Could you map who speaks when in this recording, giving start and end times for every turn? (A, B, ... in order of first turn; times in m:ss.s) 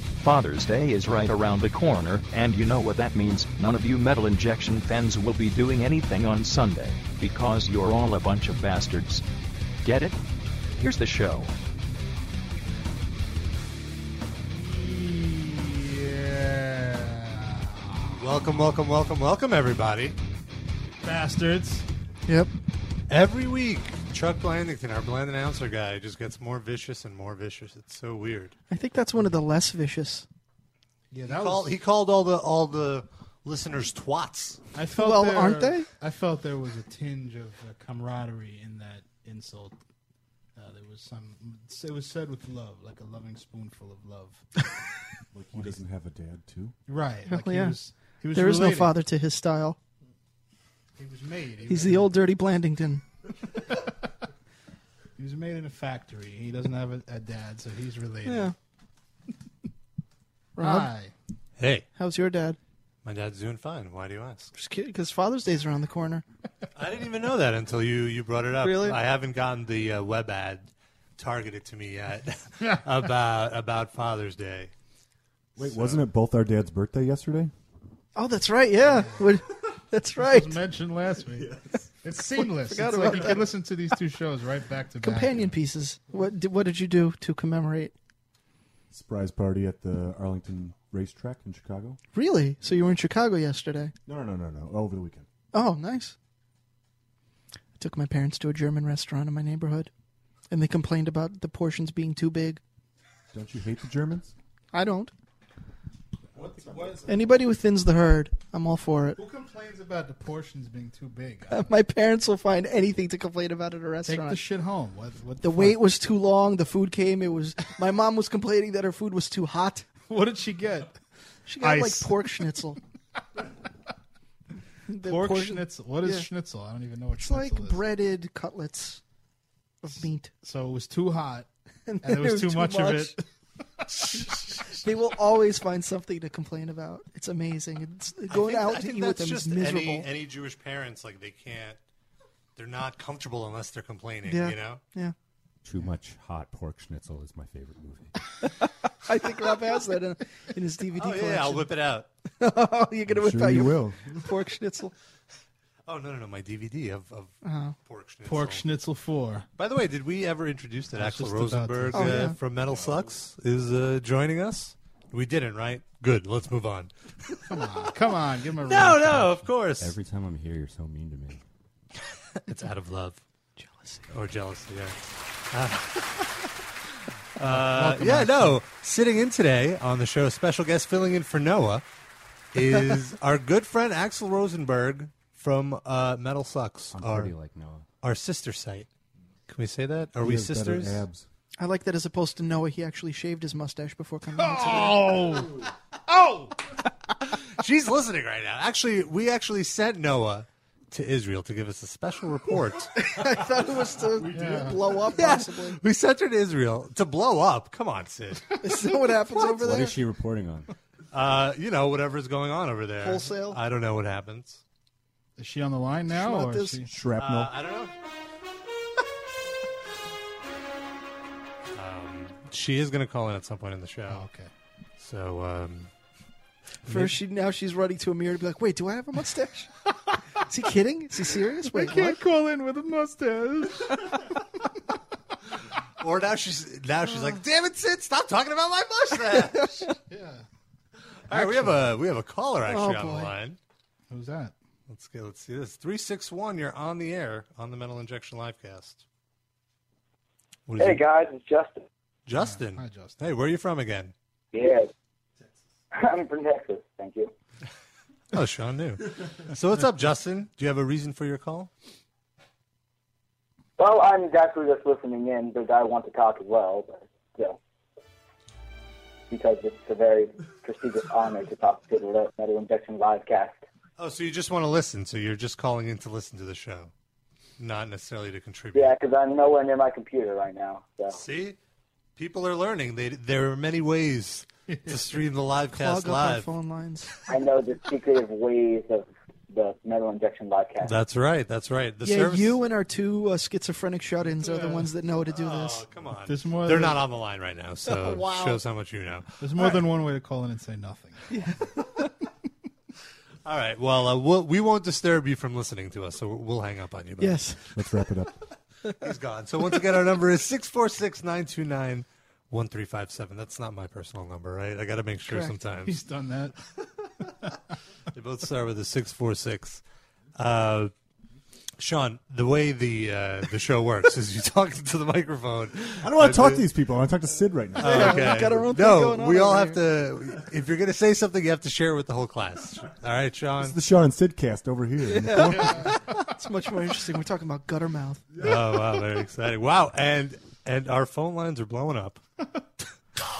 0:00.2-0:09.2 A
0:09.8-0:10.2 A
0:10.8-0:11.5 A
0:14.5-0:18.2 B
0:18.2-0:20.2 C
0:21.0-0:21.9 B
0:23.1-0:28.6 C
0:28.7-0:30.3 D
0:31.1-0:31.7 B
0:31.3-0:34.6 C
0:34.7-0:39.8 B
0:34.9-0:35.9 D
0:40.6-0:44.5 B
0:45.3-0:46.7 E
0:46.9-0:49.0 B
0:47.3-0:47.8 D
0:48.3-0:49.8 D
0:51.0-0:52.1 B
0:51.7-0:53.0 D
0:55.2-0:58.5 B
0:58.2-0:58.5 D
1:00.6-1:00.9 D
1:00.6-1:01.1 B
1:01.6-1:01.8 C
1:02.0-1:02.6 D
1:03.0-1:04.5 C
1:04.5-1:06.2 D
1:06.8-1:14.7 C
1:08.6-1:09.0 D
1:12.6-1:12.9 B
1:15.6-1:17.5 E
1:15.6-1:16.0 C
1:18.2-1:20.6 D
1:18.9-1:19.2 B
1:20.2-1:25.6 B
1:21.4-1:21.9 E
1:22.4-1:23.6 D
1:25.0-1:27.9 D
1:28.9-1:32.0 E
1:32.1-1:33.9 D
1:34.1-1:35.3 E
1:35.5-1:36.2 D
1:37.8-1:39.9 D
1:40.5-1:42.6 D
1:43.3-1:44.3 E
1:44.7-1:45.1 D
1:46.3-1:47.1 E
1:46.4-1:47.1 B
1:47.1-1:49.2 D
1:49.2-1:51.7 B
1:51.5-1:54.4 D
1:54.0-1:55.8 B
1:55.4-1:59.9 D
2:00.1-2:01.0 B
2:01.5-2:02.8 D
2:01.6-2:02.4 B
2:04.9-2:06.3 D
2:05.0-2:07.8 B
2:07.2-2:09.0 D
2:09.8-2:10.3 D
2:10.4-2:11.5 B
2:11.9-2:13.2 D
2:12.0-2:13.2 B
2:14.0-2:14.5 B
2:14.7-2:20.1 D
2:18.3-2:21.8 C
2:22.6-2:24.8 C
2:24.2-2:25.2 D
2:25.6-2:28.1 F
2:29.0-2:31.7 D
2:30.9-2:32.1 C
2:32.4-2:34.9 D
2:33.1-2:34.2 E
2:35.9-2:38.6 C
2:37.4-2:37.8 D
2:38.2-2:39.5 B
2:39.6-2:47.4 C
2:41.0-2:42.3 B
2:41.9-2:42.4 D
2:47.5-2:49.3 B
2:48.6-2:49.9 C
2:49.8-2:51.4 F
2:52.5-2:53.2 C
2:53.6-2:54.1 D
2:54.1-2:55.0 C
2:55.5-2:56.4 C
2:57.4-3:01.8 C
2:57.4-2:58.6 B
3:02.5-3:07.3 C
3:06.9-3:07.8 F
3:08.0-3:08.9 C
3:09.5-3:11.0 C
3:10.2-3:11.2 E
3:11.6-3:15.2 D
3:14.3-3:16.5 B
3:17.6-3:22.9 C
3:22.9-3:25.8 D
3:24.2-3:25.0 E
3:24.3-3:24.9 B
3:25.2-3:28.5 C
3:28.6-3:30.0 D
3:29.6-3:30.7 F
3:31.1-3:34.6 C
3:33.0-3:33.6 D
3:35.4-3:36.9 B
3:36.1-3:36.9 D
3:36.9-3:37.5 E
3:37.2-3:37.9 C
3:41.8-3:44.2 C
3:44.1-3:44.5 B
3:45.0-3:45.9 C
3:46.8-3:49.7 D
3:50.4-3:52.2 D
3:51.7-3:54.1 B
3:56.0-3:59.9 C
3:59.4-3:59.9 D
4:00.1-4:00.4 B
4:01.3-4:03.6 C
4:01.3-4:02.0 B
4:02.6-4:03.3 D
4:04.1-4:04.5 B
4:04.9-4:09.0 C
4:10.7-4:11.0 C
4:10.8-4:11.8 G
4:12.2-4:14.1 C
4:12.4-4:13.2 B
4:14.5-4:14.9 G
4:15.9-4:17.3 G
4:18.3-4:21.7 C
4:23.8-4:27.6 G
4:29.3-4:33.6 G
4:34.0-4:36.9 C
4:37.6-4:39.0 C
4:38.7-4:41.2 G
4:41.1-4:41.6 C
4:42.2-4:46.5 C
4:45.7-4:47.1 D
4:47.3-4:51.0 G
4:50.8-4:52.6 C
4:52.0-4:55.9 D
4:54.4-4:54.9 B
4:55.3-4:59.8 C
4:56.2-4:57.0 B
4:57.9-4:58.6 D
4:59.4-5:01.3 B
5:01.3-5:01.6 D
5:03.4-5:07.5 C
5:07.2-5:07.7 D
5:07.8-5:08.3 E
5:09.0-5:16.0 C
5:15.3-5:15.5 D
5:15.9-5:16.6 B
5:18.1-5:19.8 C
5:20.4-5:20.9 C
5:21.8-5:26.6 C
5:26.0-5:28.5 E
5:27.8-5:33.8 C
5:27.8-5:29.8 D
5:33.6-5:35.9 E
5:35.0-5:38.3 D
5:35.5-5:36.0 B
5:38.4-5:42.2 C